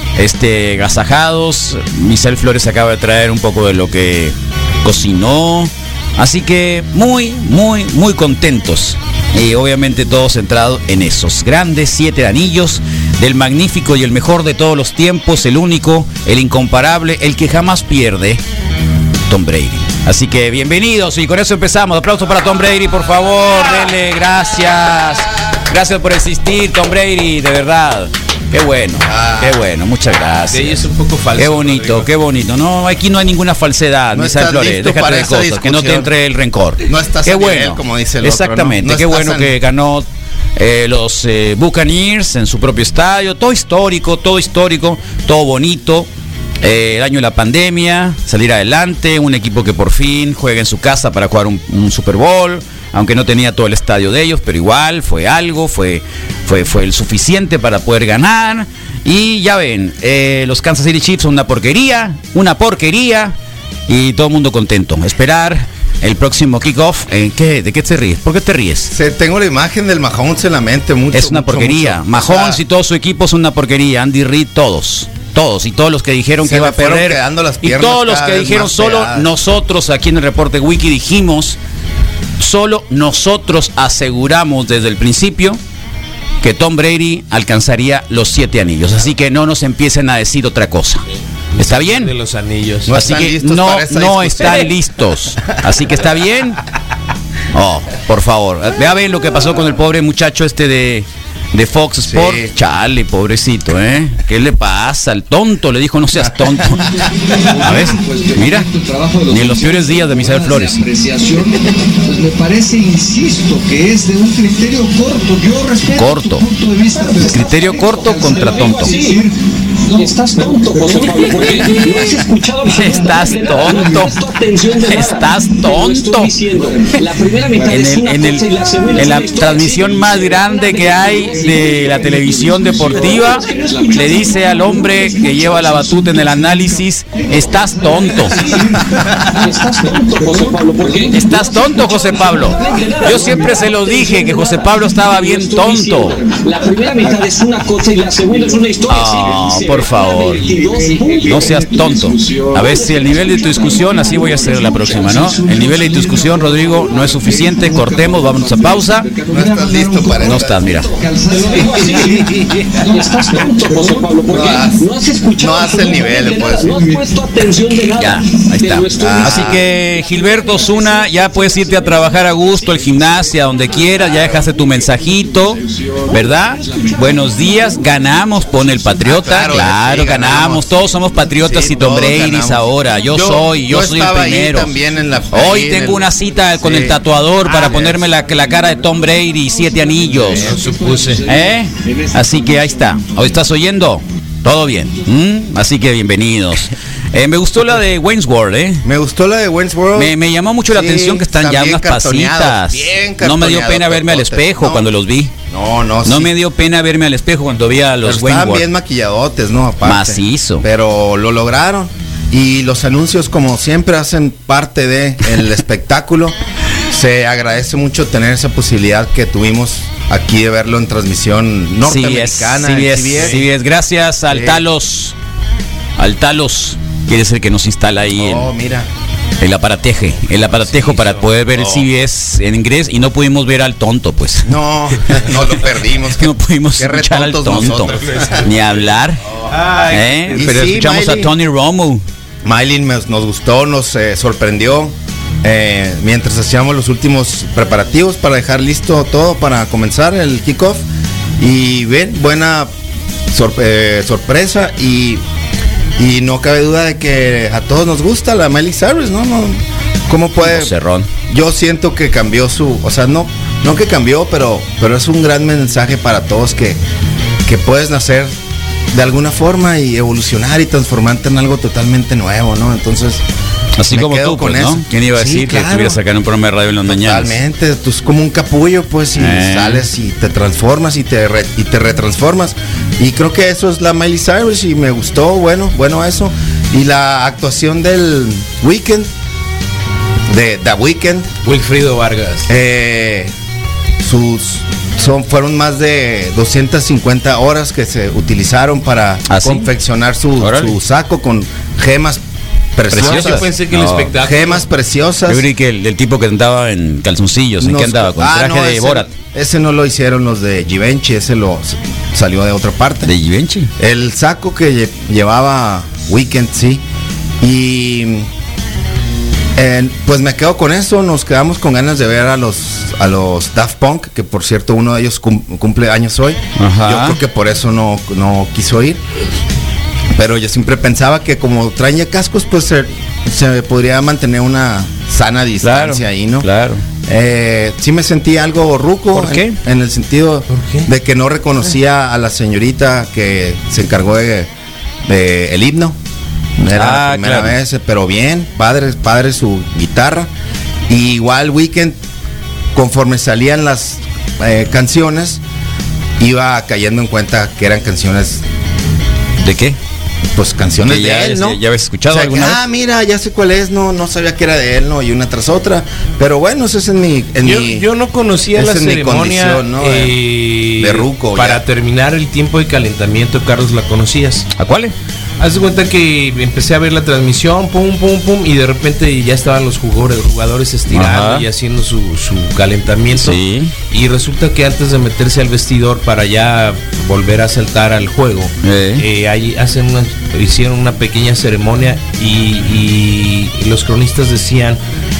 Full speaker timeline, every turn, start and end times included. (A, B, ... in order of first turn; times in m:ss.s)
0:00.2-0:18.4 A
0:19.3-0:30.8 A
0:29.0-0:29.6 B
0:30.5-0:32.1 C
0:31.4-0:40.0 A
0:34.1-0:36.1 B
0:36.9-0:39.5 B
0:40.6-0:46.1 A
0:46.6-1:03.3 A
1:03.9-1:08.9 A
1:08.9-1:12.6 B
1:11.1-1:21.6 A
1:16.4-1:19.3 B
1:22.4-1:25.6 A
1:26.4-1:31.0 A
1:31.5-1:32.9 C
1:31.6-1:32.1 A
1:32.8-1:34.7 B
1:32.9-1:36.6 A
1:37.5-1:46.9 A
1:42.0-1:42.5 B
1:46.8-2:02.3 D
1:47.6-1:48.7 A
1:49.3-1:50.8 A
1:56.0-1:56.4 A
1:57.2-1:58.9 A
1:58.2-1:59.2 E
1:59.9-2:12.0 E
2:02.6-2:04.2 A
2:02.8-2:04.1 D
2:04.8-2:06.3 A
2:06.4-2:07.9 D
2:07.7-2:18.5 A
2:08.6-2:09.2 D
2:10.7-2:24.3 D
2:12.8-2:14.5 E
2:18.3-2:31.6 E
2:21.1-2:26.2 A
2:26.1-2:27.4 D
2:28.2-2:28.6 D
2:28.9-2:30.5 A
2:30.3-2:44.4 D
2:31.2-2:39.1 A
2:32.6-2:35.4 E
2:39.3-2:40.6 B
2:40.2-2:40.9 A
2:40.6-2:51.8 E
2:44.3-2:46.8 B
2:46.6-2:47.1 D
2:48.0-3:04.7 A
2:49.0-2:49.6 B
2:50.4-2:52.0 D
2:53.4-2:59.1 D
2:56.3-2:57.4 E
2:59.0-3:00.7 B
3:01.3-3:08.0 B
3:05.3-3:10.5 A
3:07.5-3:13.5 D
3:10.2-3:10.5 B
3:10.4-3:11.2 C
3:11.2-3:18.8 A
3:18.8-3:20.1 B
3:20.0-3:25.3 A
3:20.7-3:24.9 B
3:25.5-3:26.3 B
3:26.0-3:28.7 A
3:28.0-3:36.4 B
3:29.8-3:30.6 A
3:36.9-3:43.4 B
3:41.8-3:45.1 A
3:44.3-3:44.6 B
3:46.0-3:48.5 A
3:48.1-3:48.9 B
3:49.4-3:54.5 A
3:51.5-3:51.9 B
3:54.4-3:58.5 B
3:56.2-3:59.2 A
3:57.9-3:58.4 C
3:59.5-4:00.6 C
3:59.9-4:02.0 A
4:00.3-4:01.3 B
4:02.4-4:10.8 B
4:11.4-4:12.7 B
4:13.3-4:15.2 B
4:16.0-4:20.7 B
4:20.4-4:21.1 A
4:21.3-4:26.8 B
4:27.4-4:28.3 B
4:28.9-4:33.2 B
4:33.8-4:37.4 A
4:33.8-4:36.0 B
4:36.9-4:49.1 B
4:39.2-4:39.8 A
4:50.3-4:51.3 B
4:51.4-4:52.5 C
4:52.5-4:53.3 B
4:54.0-5:02.2 B
4:59.3-4:59.7 A
5:00.4-5:00.7 A
5:02.8-5:03.5 B
5:02.9-5:04.1 A
5:03.0-5:04.6 C
5:04.2-5:05.4 B
5:05.3-5:09.1 A
5:07.6-5:13.1 B
5:13.0-5:13.7 A
5:13.8-5:16.8 B
5:17.4-5:18.3 B
5:19.6-5:29.0 B
5:26.6-5:27.2 A
5:30.1-5:36.5 B
5:35.6-5:36.8 A
5:37.0-5:44.5 B
5:39.1-5:39.6 A
5:40.5-5:40.9 C
5:45.0-5:46.0 B
5:46.6-5:50.3 B
5:46.7-5:47.5 A
5:50.9-5:52.0 B
5:52.7-5:55.4 B
5:56.2-5:58.4 B
5:59.4-5:59.8 A
6:00.3-6:07.8 B
6:00.8-6:02.6 A
6:07.4-6:14.5 C
6:08.5-6:10.2 B
6:10.8-6:11.6 B
6:14.6-6:14.9 A
6:15.4-6:23.4 C
6:20.9-6:21.4 A
6:23.2-6:23.7 A
6:23.9-6:34.8 C
6:28.6-6:29.0 A